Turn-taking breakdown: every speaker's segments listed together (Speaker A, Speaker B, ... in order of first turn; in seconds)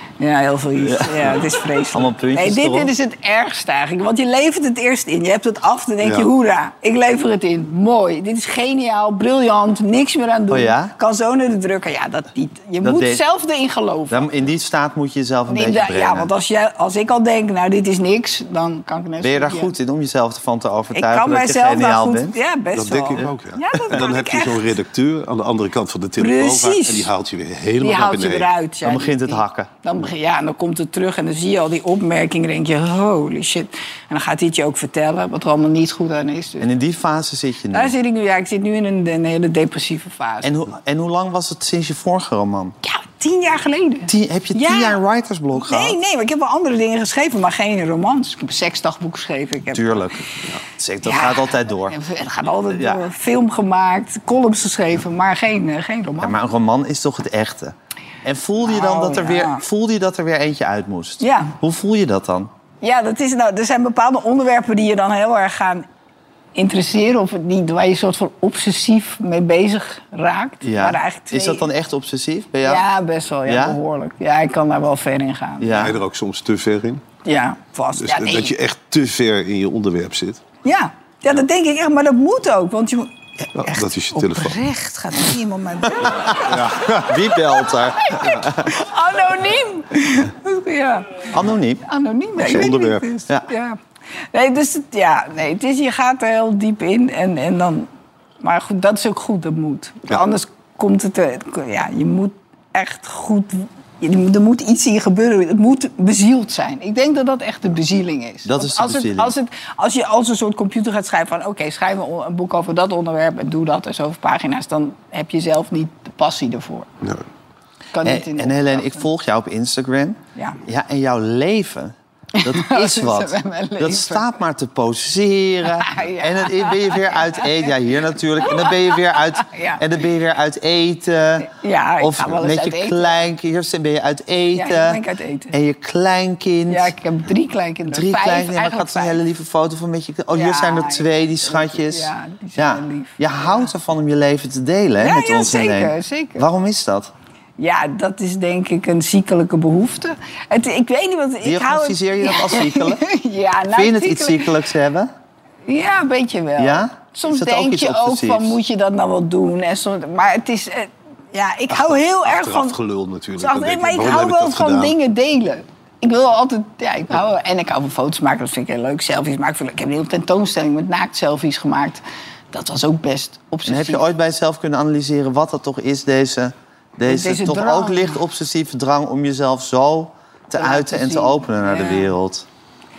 Speaker A: 0.2-14.3, 15.5-19.7, 20.9-24.6, 26.2-27.1, 27.8-36.7, 37.7-40.5, 42.8-45.0, 45.5-50.0, 51.0-56.4, 58.6-59.6, 61.2-61.5, 62.8-65.8, 66.5-71.7, 72.6-75.9, 77.2-78.5, 80.6-86.5, 87.3-91.3, 91.8-93.8, 94.3-97.9, 98.4-116.9, 117.9-119.0, 122.4-124.4, 125.8-127.7, 128.4-129.8, 131.4-133.2, 134.5-135.5, 136.7-139.2, 140.3-143.7, 145.0-146.4, 147.6-154.5, 155.7-162.8, 163.4-172.0, 172.5-174.0, 177.1-178.2, 180.6-182.1
Speaker B: 1.9-2.9, 10.5-10.9, 12.8-13.2, 14.1-16.3, 19.2-22.4, 28.8-29.7, 36.6-37.9, 40.4-42.8, 44.1-46.0, 49.7-52.0, 52.7-53.0, 56.2-62.5, 70.6-72.8, 73.5-73.8, 75.6-76.0, 86.5-88.8, 91.3-91.8, 92.4-92.7, 108.4-109.3, 118.0-136.9, 137.9-147.1, 151.4-153.0, 153.7-155.1, 156.6-158.6, 173.6-182.5
Speaker C: 6.0-6.3, 22.7-28.5, 75.7-77.0, 78.0-80.4, 83.6-84.6, 86.3-87.2, 92.4-93.1, 161.7-164.9